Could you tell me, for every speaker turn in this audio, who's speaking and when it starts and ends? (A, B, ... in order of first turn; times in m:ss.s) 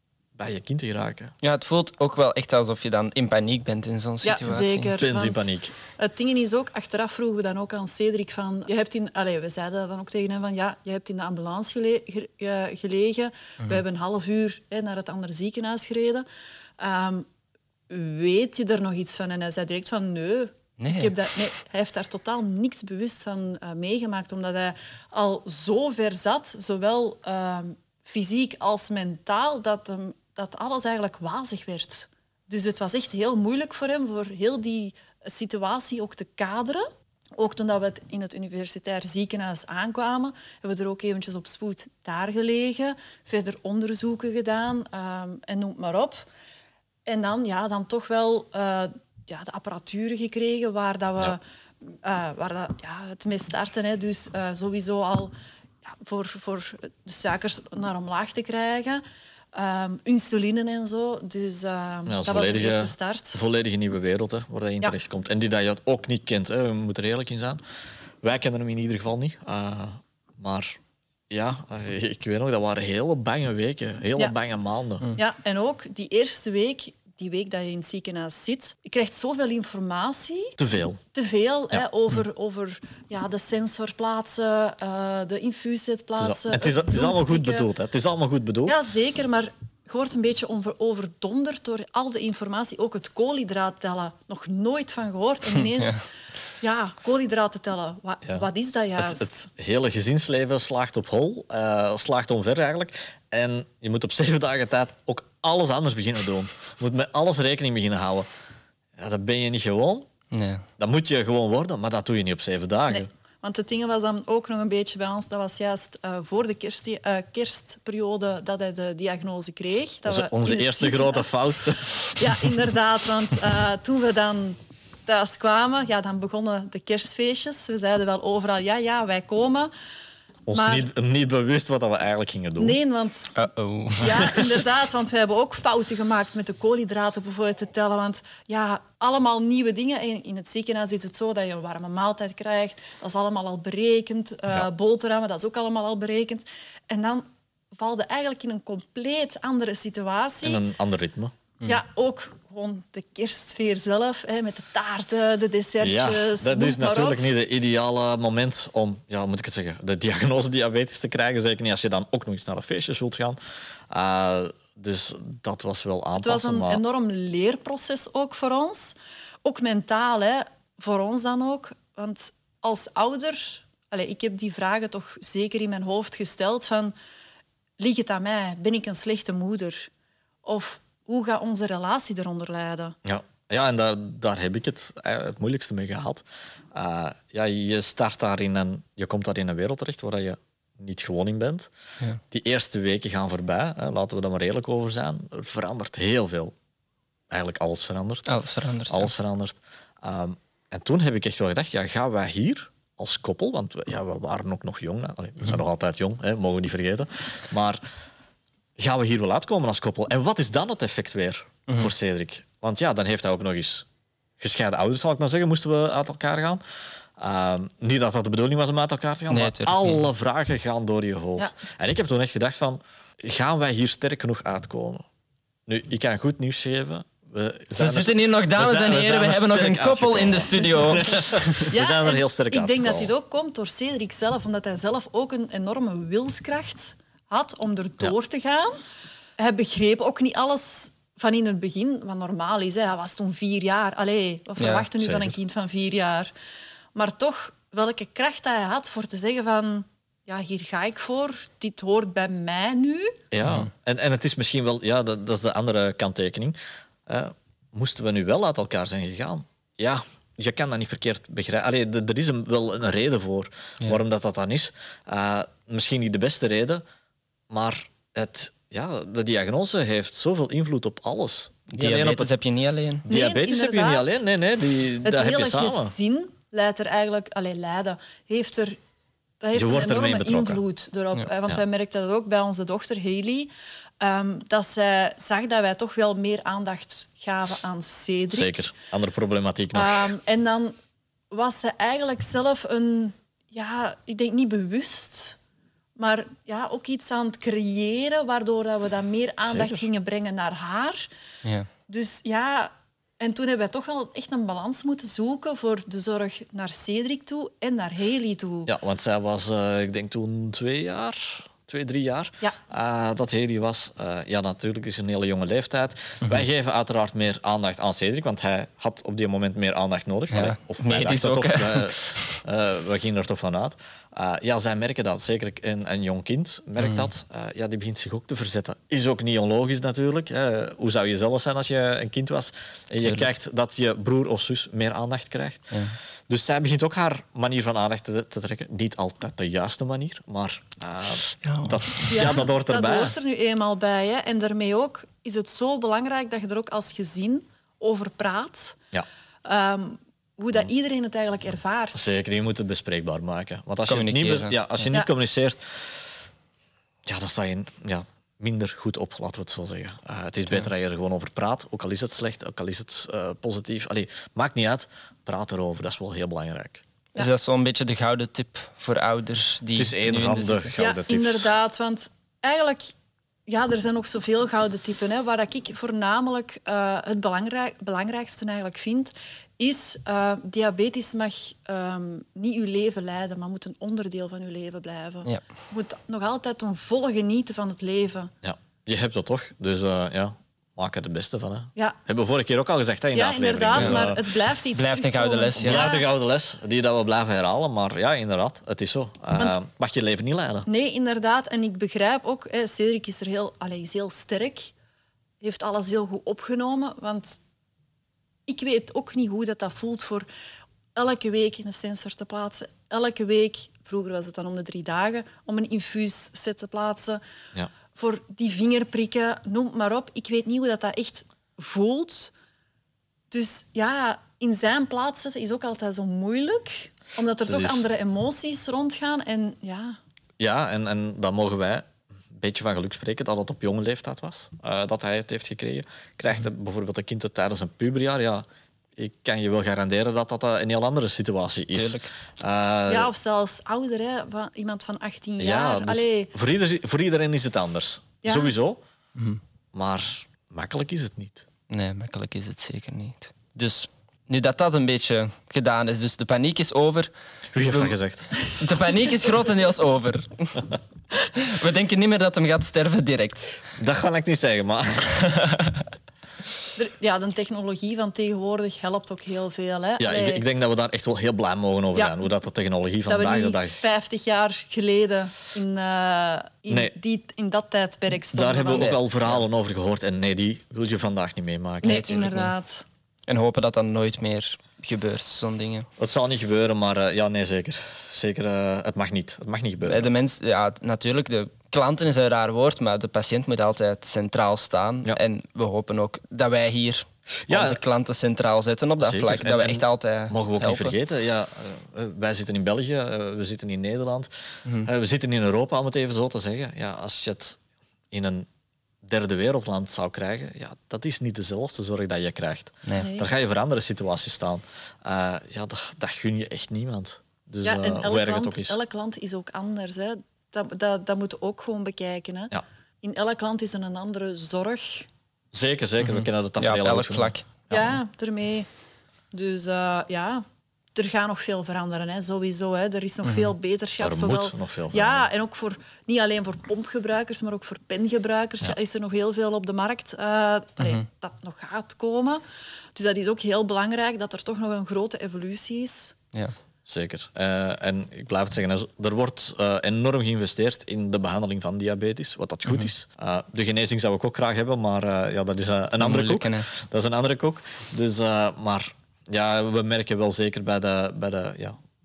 0:00.4-0:01.3 A
0:01.4-0:04.9 B
0:04.2-0:16.2 C
0:05.0-0:05.7 A
0:16.8-0:17.3 C
0:17.9-0:36.8 C
0:20.8-0:21.2 B
0:37.4-0:46.2 C
0:47.1-0:55.3 C
0:55.8-0:59.0 C
0:59.5-1:03.4 C
1:02.1-1:07.6 A
1:08.2-1:15.1 A
1:15.2-1:20.6 C
1:20.6-1:21.0 A
1:21.1-1:27.7 C
1:26.2-1:28.8 A
1:28.7-1:36.1 C
1:36.6-1:39.5 C
1:39.0-1:48.3 A
1:49.0-1:50.1 A
1:50.3-1:50.6 B
1:50.8-1:53.1 A
1:52.9-2:01.3 C
2:00.1-2:02.4 A
2:02.2-2:09.7 C
2:10.5-2:12.8 A
2:10.5-2:10.9 C
2:12.6-2:13.4 C
2:13.4-2:14.3 B
2:14.0-2:27.2 C
2:27.8-2:30.6 C
2:30.4-2:31.3 A
2:31.6-2:37.2 C
2:35.8-2:43.4 A
2:43.9-2:46.8 A
2:46.2-2:56.9 C
2:57.8-2:59.9 C
3:00.4-3:03.0 C
3:03.0-3:11.7 A
3:12.3-3:16.5 A
3:17.3-3:18.3 A
3:18.3-3:19.1 B
3:18.9-3:27.8 A
3:28.8-3:33.9 A
3:34.4-3:36.6 A
3:37.2-3:45.0 A
3:39.3-3:40.0 B
3:45.7-3:53.1 A
3:47.8-3:51.7 B
3:51.7-3:58.8 C
3:59.4-4:06.3 C
4:04.6-4:04.9 B
4:05.0-4:05.4 A
4:07.0-4:13.1 C
4:13.3-4:26.8 A
4:13.4-4:13.7 B
4:27.5-4:32.3 A
4:31.7-4:33.1 B
4:33.1-4:34.2 C
4:33.1-4:35.9 A
4:35.0-4:38.8 C
4:39.4-4:48.6 C
4:39.5-4:40.6 A
4:48.3-4:50.1 A
4:49.7-4:50.7 C
4:51.3-4:55.4 C
4:56.0-5:01.1 C
4:59.4-4:59.8 A
5:01.9-5:08.7 C
5:08.7-5:35.7 A
5:20.3-5:22.4 B
5:26.8-5:27.1 B
5:35.7-5:36.0 B
5:36.3-5:43.1 A
5:41.4-5:42.2 B
5:42.1-5:48.8 C
5:49.4-5:52.2 C
5:52.0-5:56.2 A
5:53.9-5:54.8 B
5:57.1-6:06.8 A
6:07.2-6:10.7 B
6:09.8-6:11.5 A
6:10.8-6:12.8 C
6:13.5-6:28.3 C
6:28.4-6:34.2 A
6:33.1-6:36.1 C
6:33.7-6:34.1 B
6:34.7-6:35.9 B
6:35.6-6:40.7 A
6:40.7-6:44.7 C
6:45.4-6:47.4 C
6:48.5-6:50.3 C
6:51.0-6:57.2 C
6:58.0-7:02.3 C
7:03.3-7:10.0 C
7:07.5-7:07.8 A
7:10.4-7:18.4 A
7:19.0-7:23.1 A
7:21.7-7:22.1 B
7:22.9-7:26.3 C
7:25.4-7:28.8 A
7:28.2-7:28.5 C
7:29.7-7:31.4 A
7:31.7-7:37.1 B
7:37.5-7:38.3 A
7:37.6-7:40.6 B
7:41.4-7:43.6 B
7:43.8-7:45.2 A
7:45.4-7:45.8 B
7:46.8-7:50.4 C
7:50.0-7:53.8 A
7:53.1-7:59.0 C
7:56.7-7:57.0 A
7:58.3-8:02.1 A
7:58.7-7:59.0 B
8:01.8-8:02.8 C
8:01.8-8:02.5 B
8:03.3-8:05.9 B
8:06.0-8:10.1 A
8:09.9-8:21.0 B
8:17.5-8:17.8 A
8:19.0-8:24.3 A
8:24.8-8:27.6 A
8:28.1-8:28.5 A
8:29.0-8:38.8 A
8:33.0-8:33.3 C
8:37.6-8:45.1 C
8:45.5-8:48.0 A
8:46.0-8:47.5 B
8:47.7-8:48.7 C
8:49.3-8:50.4 C
8:51.0-9:02.4 C
8:53.2-8:53.5 B
8:54.0-8:55.3 A
9:03.0-9:06.2 C
9:06.9-9:21.8 A
9:16.0-9:16.7 B